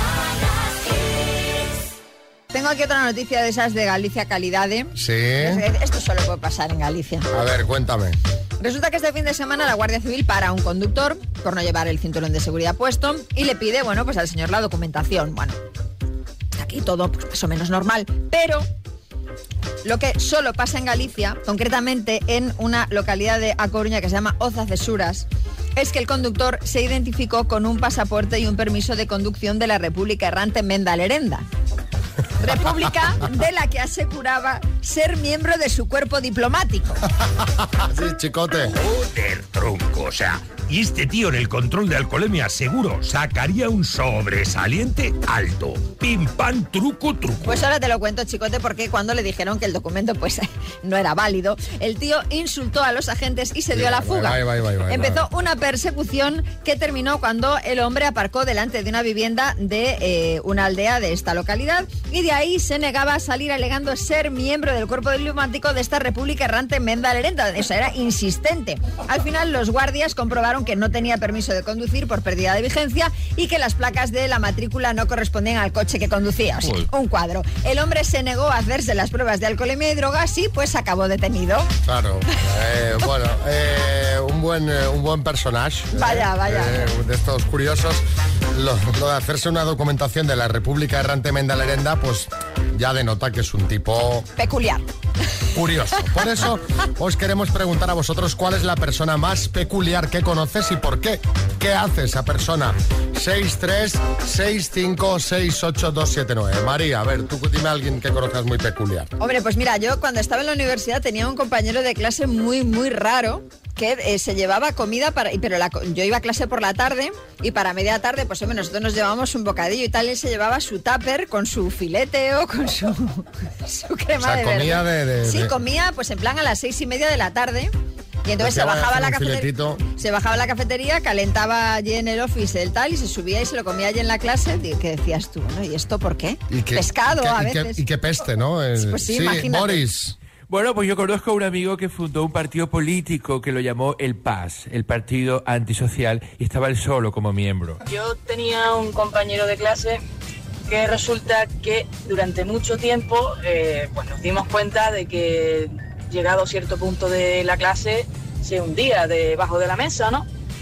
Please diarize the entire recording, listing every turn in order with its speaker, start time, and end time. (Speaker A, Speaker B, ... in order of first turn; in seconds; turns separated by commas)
Speaker A: 2.5-7.3, Speaker B: 5.0-5.6, Speaker B: 7.3-8.2, Speaker A: 8.6-15.6, Speaker A: 16.5-18.7, Speaker A: 19.8-31.4, Speaker A: 32.4-37.0, Speaker B: 37.6-38.7, Speaker C: 38.8-47.6, Speaker A: 47.4-81.7, Speaker B: 53.7-55.3, Speaker B: 81.8-94.3, Speaker A: 85.9-86.8, Speaker A: 94.3-94.8, Speaker B: 95.5-109.1, Speaker A: 109.2-127.7, Speaker B: 124.2-125.5, Speaker A: 128.2-137.8, Speaker B: 128.4-129.8, Speaker B: 136.5-140.1, Speaker A: 138.8-139.8, Speaker D: 140.5-147.8, Speaker E: 147.9-150.0, Speaker E: 150.7-160.3